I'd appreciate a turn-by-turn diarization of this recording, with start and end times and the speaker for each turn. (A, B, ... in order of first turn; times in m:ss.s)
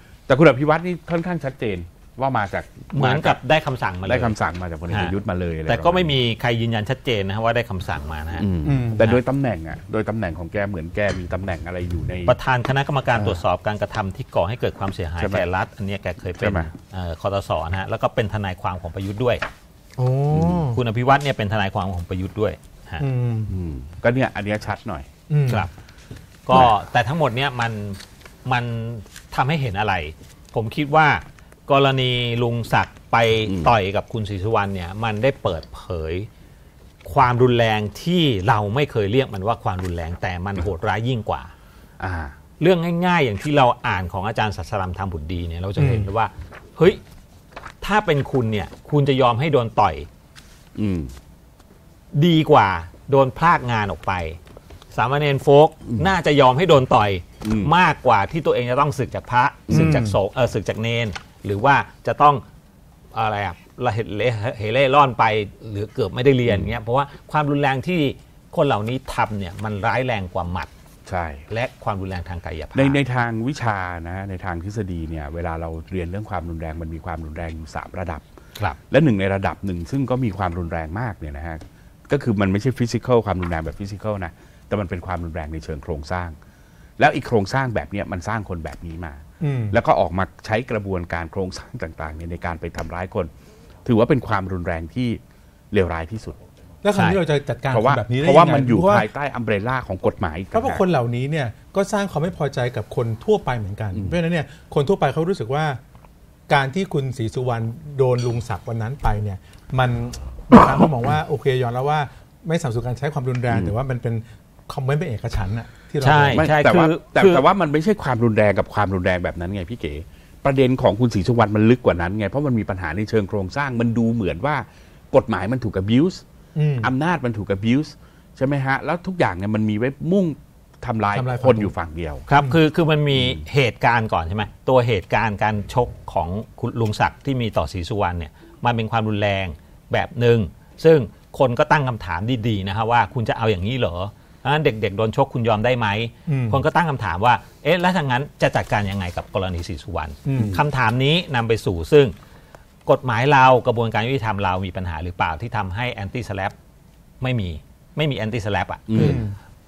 0:00.3-0:03.4 A
0:02.9-0:04.4 B
0:04.0-0:06.1 A
0:04.9-0:05.1 B
0:05.6-0:08.5 B
0:08.4-0:12.4 A
0:08.6-0:09.1 C
0:12.3-0:19.4 B
0:13.1-0:13.4 A
0:15.2-0:15.4 A
0:16.3-0:16.7 A
0:20.0-0:20.8 C
0:20.3-0:20.7 A
0:20.7-0:23.0 B
0:23.0-0:23.5 C
0:23.5-0:25.1 A
0:25.3-0:25.7 C
0:26.5-0:36.3 B
0:33.5-0:33.8 A
0:37.0-0:41.5 B
0:42.0-0:42.4 A
0:42.6-0:47.0 B
0:45.8-0:46.1 C
0:47.8-0:50.1 B
0:50.8-0:51.1 A
0:52.1-0:54.4 B
0:54.9-1:02.4 B
0:57.4-0:57.7 A
0:59.7-1:00.0 A
0:59.7-1:00.2 C
1:03.1-1:10.7 B
1:06.5-1:06.7 A
1:11.1-1:11.5 A
1:11.5-1:13.0 B
1:12.7-1:18.2 A
1:18.9-1:26.4 A
1:27.0-1:33.3 A
1:29.4-1:29.8 C
1:33.8-1:35.2 A
1:35.7-1:36.4 A
1:36.8-1:39.1 C
1:37.7-1:40.8 A
1:40.5-1:45.8 C
1:46.5-1:56.5 C
1:56.0-1:57.4 B
1:56.3-2:06.2 A
2:06.6-2:06.9 C
2:06.8-2:12.2 A
2:11.1-2:11.7 C
2:12.3-2:32.1 B
2:26.3-2:26.6 C
2:30.3-2:30.6 C
2:32.9-2:36.6 B
2:37.2-2:39.2 B
2:38.9-2:39.2 A
2:39.0-2:39.4 C